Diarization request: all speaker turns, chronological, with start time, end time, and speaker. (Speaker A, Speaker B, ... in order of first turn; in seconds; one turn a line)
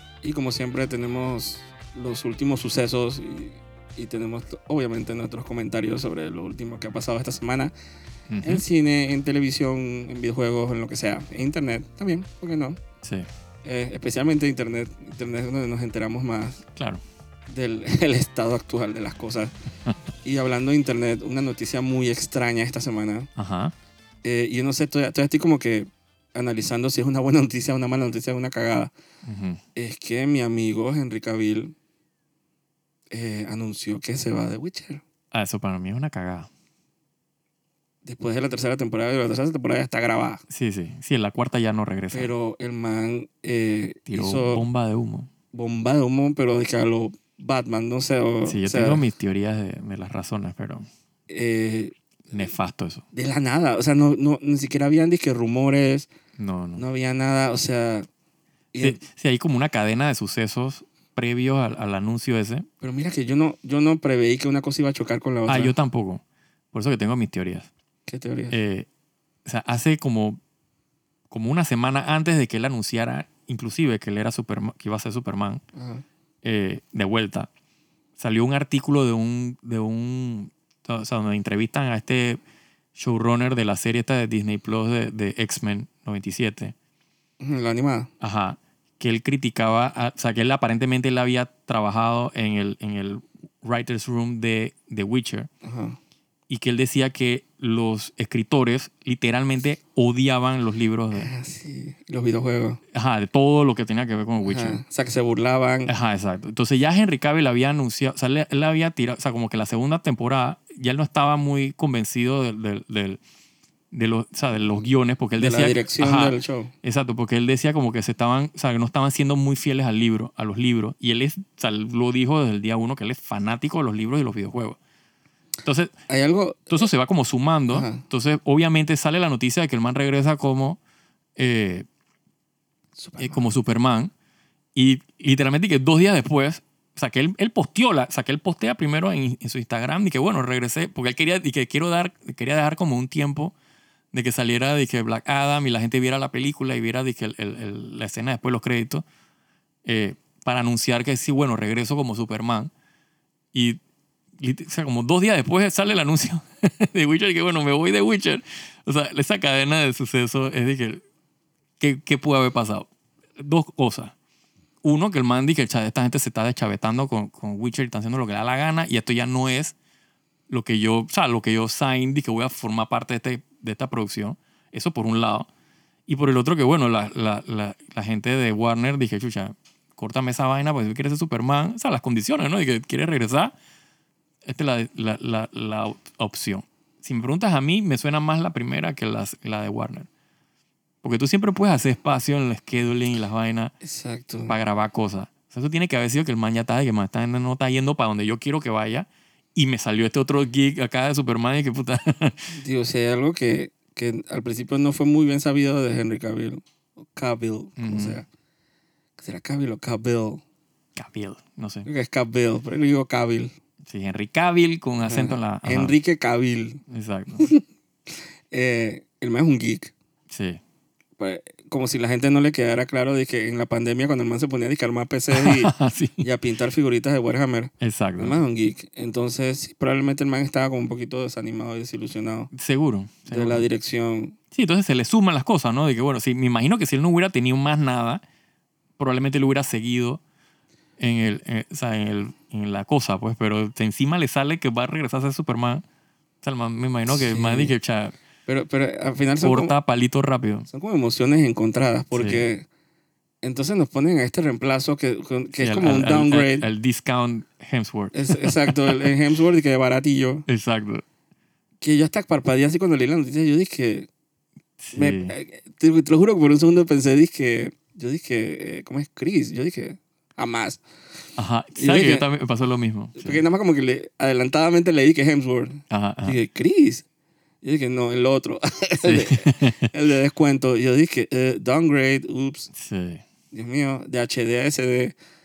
Speaker A: 0.2-7.7
Speaker B: 8.3-8.6
Speaker A: 8.4-12.8
Speaker B: 13.0-13.3
Speaker A: 13.6-16.6
Speaker B: 16.8-17.0
Speaker A: 17.5-19.5
Speaker A: 20.2-23.3
Speaker B: 23.4-23.7
Speaker A: 24.2-28.9
Speaker B: 29.2-29.6
Speaker A: 29.8-31.8
Speaker A: 33.1-35.0
Speaker B: 35.3-36.5
Speaker A: 38.0-40.4
Speaker B: 40.5-42.3
Speaker A: 42.1-44.6
Speaker B: 44.1-45.3
Speaker A: 45.5-49.0
Speaker B: 48.5-50.9
Speaker A: 51.3-52.5
Speaker B: 52.3-53.0
Speaker A: 53.1-56.1
Speaker B: 56.4-56.9
Speaker A: 56.8-58.1
Speaker A: 58.7-59.0
Speaker B: 58.8-62.7
Speaker A: 62.8-65.8
Speaker B: 65.5-67.7
Speaker A: 68.1-68.6
Speaker B: 68.5-68.9
Speaker B: 69.5-70.4
Speaker B: 71.3-75.6
Speaker A: 75.8-76.0
Speaker B: 76.4-77.5
Speaker B: 78.2-82.4
Speaker B: 83.0-86.8
Speaker A: 87.4-88.1
Speaker B: 88.2-95.5
Speaker A: 95.6-96.0
Speaker B: 96.5-101.3
Speaker A: 101.1-102.8
Speaker B: 102.9-104.8
Speaker A: 104.4-105.9
Speaker B: 105.9-113.2
Speaker B: 113.9-124.8
Speaker A: 115.4-116.7
Speaker B: 125.7-125.9
Speaker A: 126.1-126.9
Speaker B: 126.7-130.8
Speaker A: 127.7-128.0
Speaker B: 131.4-131.9
Speaker A: 133.0-133.4
Speaker B: 133.2-134.1
Speaker B: 134.8-143.6
Speaker B: 144.1-149.1
Speaker B: 149.8-152.7
Speaker B: 153.5-153.8
Speaker B: 154.4-161.0
Speaker B: 161.8-164.1
Speaker B: 164.8-169.8
Speaker B: 170.5-175.5
Speaker B: 176.1-183.5
Speaker B: 184.4-190.1
Speaker B: 191.0-193.7
Speaker A: 193.8-194.6
Speaker B: 194.5-202.6
Speaker A: 202.5-208.3
Speaker B: 207.8-208.2
Speaker A: 209.2-210.4
Speaker B: 211.0-211.9
Speaker A: 211.8-213.5
Speaker B: 213.8-215.9
Speaker A: 215.0-216.8
Speaker B: 216.9-217.5
Speaker A: 218.5-219.9
Speaker B: 220.3-220.6
Speaker A: 221.2-232.5
Speaker B: 225.3-226.2
Speaker B: 227.8-228.4
Speaker B: 232.5-233.7
Speaker A: 233.3-234.4
Speaker B: 234.5-238.2
Speaker B: 239.0-240.2
Speaker B: 241.0-245.8
Speaker B: 246.4-248.1
Speaker A: 247.1-247.7
Speaker A: 248.5-249.8
Speaker B: 249.4-250.7
Speaker A: 250.7-252.7
Speaker B: 252.1-252.5
Speaker A: 253.4-256.7
Speaker B: 255.6-259.1
Speaker A: 258.1-260.5
Speaker B: 260.5-261.0
Speaker A: 261.8-264.1
Speaker B: 264.8-265.4
Speaker A: 264.9-270.8
Speaker B: 271.4-273.4
Speaker A: 271.8-272.3
Speaker A: 273.2-277.1
Speaker B: 275.9-276.4
Speaker A: 277.6-282.7
Speaker B: 279.0-279.9
Speaker B: 282.7-283.2
Speaker A: 283.5-285.2